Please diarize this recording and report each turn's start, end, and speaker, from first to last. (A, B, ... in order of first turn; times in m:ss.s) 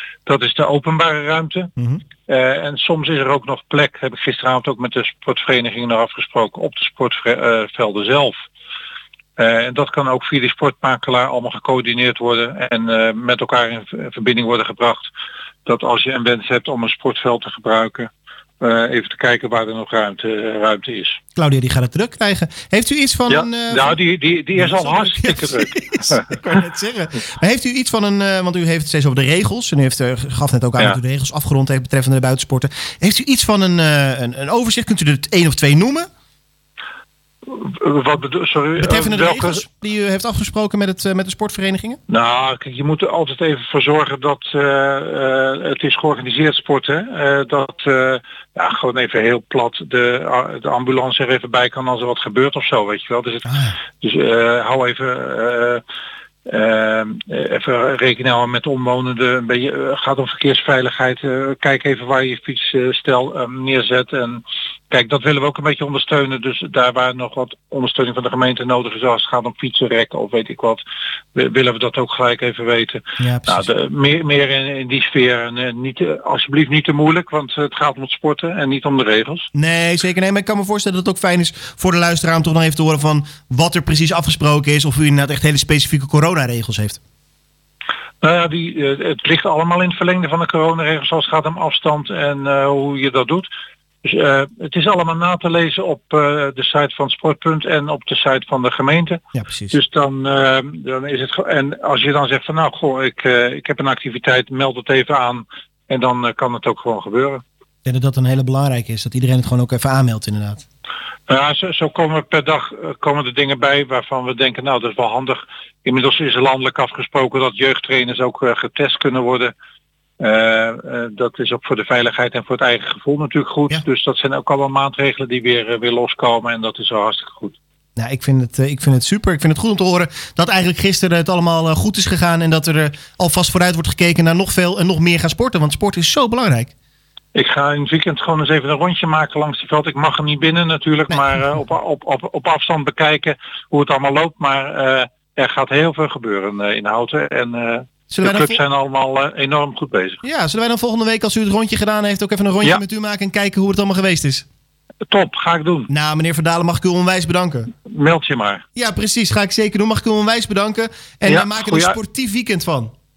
0:00.2-0:01.7 A
0:02.3-0:08.4 A
0:09.4-0:15.1 A
0:15.6-0:18.1 A
0:18.6-0:21.2 A
0:21.4-0:24.0 B
0:23.3-0:26.6 A
0:24.5-0:36.1 B
0:37.4-0:39.6 A
0:38.8-0:42.0 B
0:42.1-0:55.8 A
0:53.5-0:53.8 B
0:56.4-1:10.8 A
1:11.3-1:19.5 A
1:13.2-1:13.7 B
1:19.5-1:27.0 B
1:28.2-1:33.5 A
1:34.0-1:47.4 A
1:39.3-1:39.8 B
1:47.8-1:50.6 B
1:51.3-1:59.5 A
2:00.2-2:07.6 A
2:08.0-2:16.7 B
2:17.3-2:30.2 A
2:28.1-2:28.6 B
2:30.2-2:34.4 B
2:35.0-2:35.9 A
2:35.9-2:37.7 B
2:37.8-2:38.6 A
2:38.8-2:42.9 B
2:41.2-2:42.0 A